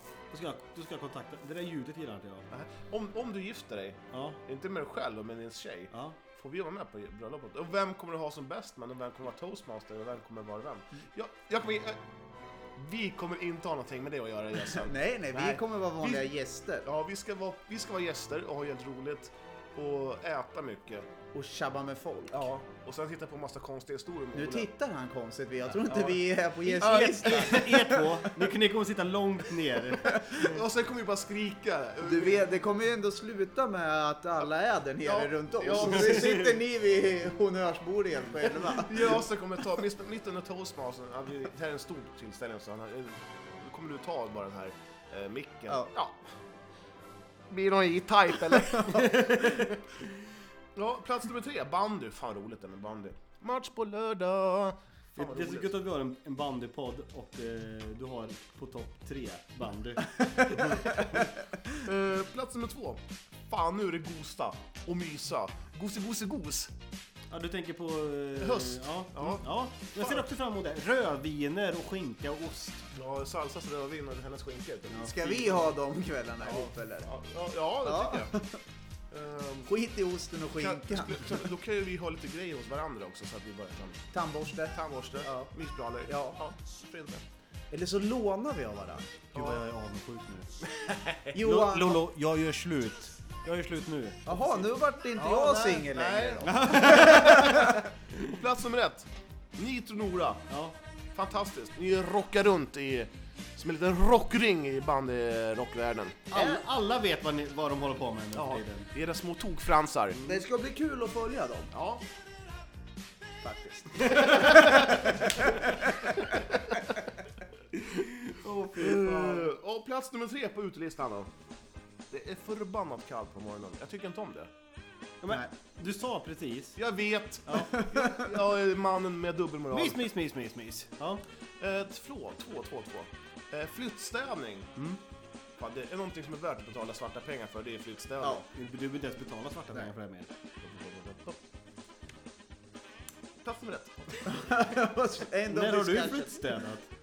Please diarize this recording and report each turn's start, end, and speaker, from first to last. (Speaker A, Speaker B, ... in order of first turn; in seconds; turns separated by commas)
Speaker A: 0.3-2.5, Speaker B: 2.5-12.0, Speaker A: 4.1-4.4, Speaker A: 5.9-6.2, Speaker B: 12.7-16.3, Speaker C: 14.7-16.9, Speaker B: 16.8-21.1, Speaker C: 21.3-22.6, Speaker B: 22.4-24.7, Speaker C: 24.3-28.3, Speaker B: 25.9-27.8, Speaker A: 26.8-30.4, Speaker C: 30.0-30.3, Speaker B: 30.1-32.5, Speaker C: 32.0-39.2, Speaker B: 35.0-36.5, Speaker A: 35.8-36.5, Speaker B: 38.5-46.2, Speaker B: 47.5-49.5, Speaker A: 48.9-49.8, Speaker B: 50.7-55.8, Speaker A: 55.1-61.0, Speaker B: 60.5-66.7, Speaker A: 67.3-72.8, Speaker B: 68.4-70.3, Speaker B: 72.9-75.7, Speaker A: 74.9-75.2, Speaker C: 75.0-77.1, Speaker B: 76.4-78.4, Speaker C: 77.8-78.6, Speaker B: 79.1-79.7, Speaker C: 79.7-81.5, Speaker B: 80.6-84.1, Speaker C: 84.1-85.5, Speaker B: 84.7-87.2, Speaker C: 86.0-86.4, Speaker C: 87.7-89.3, Speaker A: 89.3-90.5, Speaker B: 89.3-89.6, Speaker B: 90.7-91.3, Speaker C: 91.3-92.0, Speaker A: 91.4-94.3, Speaker C: 94.2-97.8, Speaker A: 95.2-95.7, Speaker B: 95.2-100.5, Speaker A: 96.4-97.8, Speaker A: 100.5-100.8, Speaker B: 101.1-106.2, Speaker A: 106.3-108.9, Speaker C: 106.3-106.6, Speaker B: 108.3-110.2, Speaker C: 110.2-111.7, Speaker B: 111.7-112.0, Speaker C: 113.4-116.1, Speaker B: 114.2-115.4, Speaker A: 117.8-119.5, Speaker B: 118.7-121.3, Speaker B: 122.1-124.5, Speaker A: 125.2-126.8, Speaker B: 126.8-130.1, Speaker A: 127.5-127.7, Speaker C: 127.9-128.3, Speaker A: 129.7-131.2, Speaker B: 131.6-134.7, Speaker B: 135.6-138.4, Speaker A: 138.5-140.3, Speaker B: 140.6-141.3, Speaker B: 143.4-144.4, Speaker C: 144.3-146.4, Speaker A: 145.5-146.9